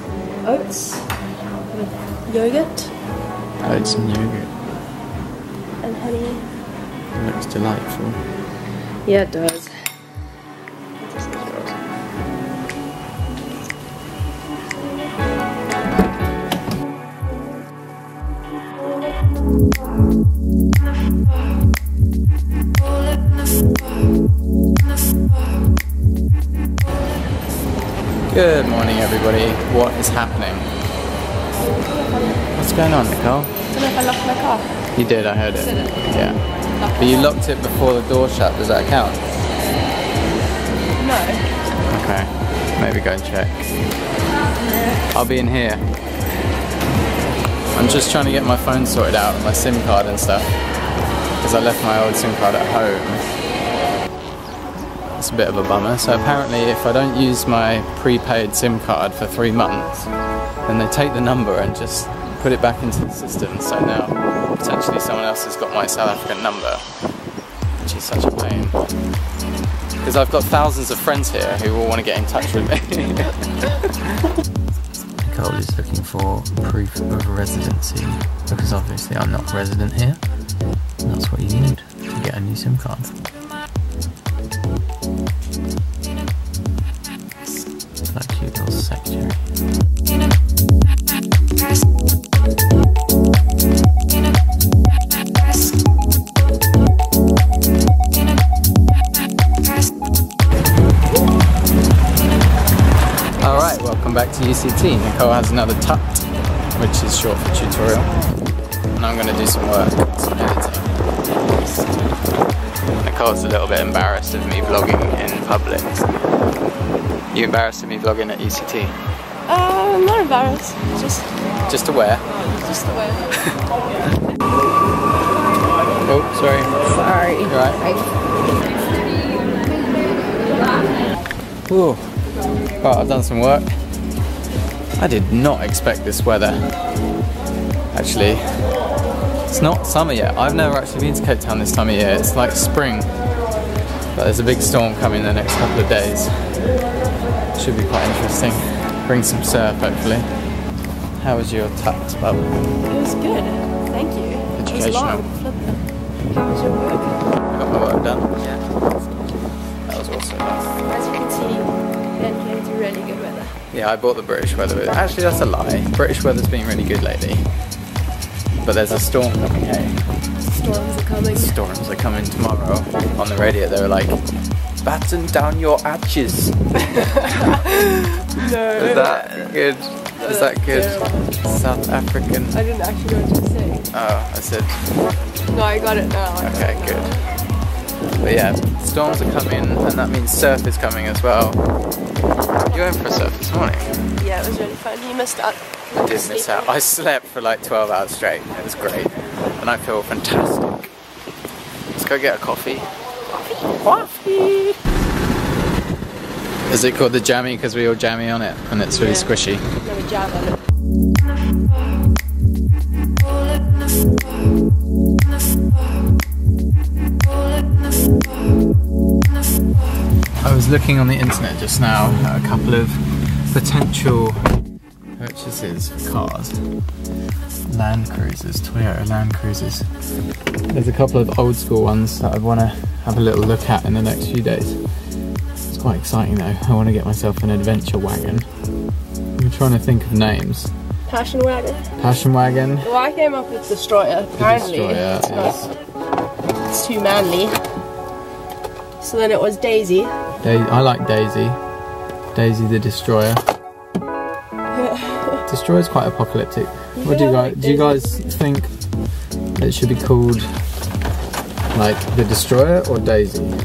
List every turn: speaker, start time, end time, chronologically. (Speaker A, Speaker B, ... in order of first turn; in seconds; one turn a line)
Speaker A: 0.4-1.1
Speaker A: 1.7-3.0
Speaker B: 3.6-4.5
Speaker A: 5.8-6.5
Speaker B: 7.1-8.3
Speaker A: 9.0-9.9
Speaker A: 11.0-11.8
Speaker B: 28.3-30.7
Speaker B: 32.5-33.6
Speaker A: 33.7-34.8
Speaker B: 34.9-36.4
Speaker A: 35.6-36.0
Speaker A: 36.8-37.3
Speaker B: 36.9-39.2
Speaker A: 41.0-41.5
Speaker B: 41.9-43.7
Speaker B: 45.1-45.8
Speaker B: 47.7-50.6
Speaker B: 51.4-53.2
Speaker B: 55.1-66.9
Speaker B: 67.8-69.0
Speaker B: 70.0-73.8
Speaker B: 75.2-83.2
Speaker B: 88.1-89.4
Speaker B: 103.4-108.1
Speaker B: 109.0-110.9
Speaker B: 113.0-116.1
Speaker B: 117.3-119.0
Speaker A: 119.5-121.3
Speaker B: 121.7-122.3
Speaker A: 122.5-123.2
Speaker B: 126.0-126.8
Speaker A: 126.8-128.1
Speaker B: 127.4-127.8
Speaker B: 131.7-133.8
Speaker B: 135.0-136.7
Speaker B: 137.9-138.8
Speaker B: 139.5-143.2
Speaker B: 144.1-146.8
Speaker B: 147.6-150.3
Speaker B: 151.2-152.5
Speaker A: 152.8-157.2
Speaker B: 154.5-155.2
Speaker B: 157.5-158.5
Speaker A: 158.4-159.3
Speaker B: 159.8-160.8
Speaker A: 160.8-163.6
Speaker B: 163.7-167.6
Speaker B: 168.6-170.1
Speaker A: 170.5-171.5
Speaker B: 171.3-176.5
Speaker A: 177.3-179.6
Speaker B: 178.7-182.6
Speaker A: 180.2-181.3
Speaker A: 182.5-183.9
Speaker B: 183.9-184.8
Speaker A: 185.5-187.2
Speaker B: 186.4-187.2
Speaker B: 188.2-191.6
Speaker B: 192.7-194.0
Speaker A: 194.2-196.7
Speaker B: 195.9-200.9
Speaker B: 201.9-202.9
Speaker B: 203.8-204.7
Speaker B: 206.7-209.7
Speaker A: 208.9-210.6
Speaker B: 220.4-224.4
Speaker B: 225.2-226.7
Speaker B: 227.7-229.9
Speaker B: 230.7-235.1
Speaker B: 235.7-238.5
Speaker B: 239.3-240.7
Speaker A: 241.1-241.9
Speaker B: 242.0-242.9
Speaker A: 242.8-245.7
Speaker B: 244.4-245.7
Speaker A: 246.7-247.6
Speaker A: 249.0-250.1
Speaker B: 250.4-251.6
Speaker B: 252.3-253.4
Speaker A: 254.7-255.4
Speaker B: 255.5-258.7
Speaker A: 256.9-258.2
Speaker B: 259.5-260.5
Speaker B: 261.7-263.6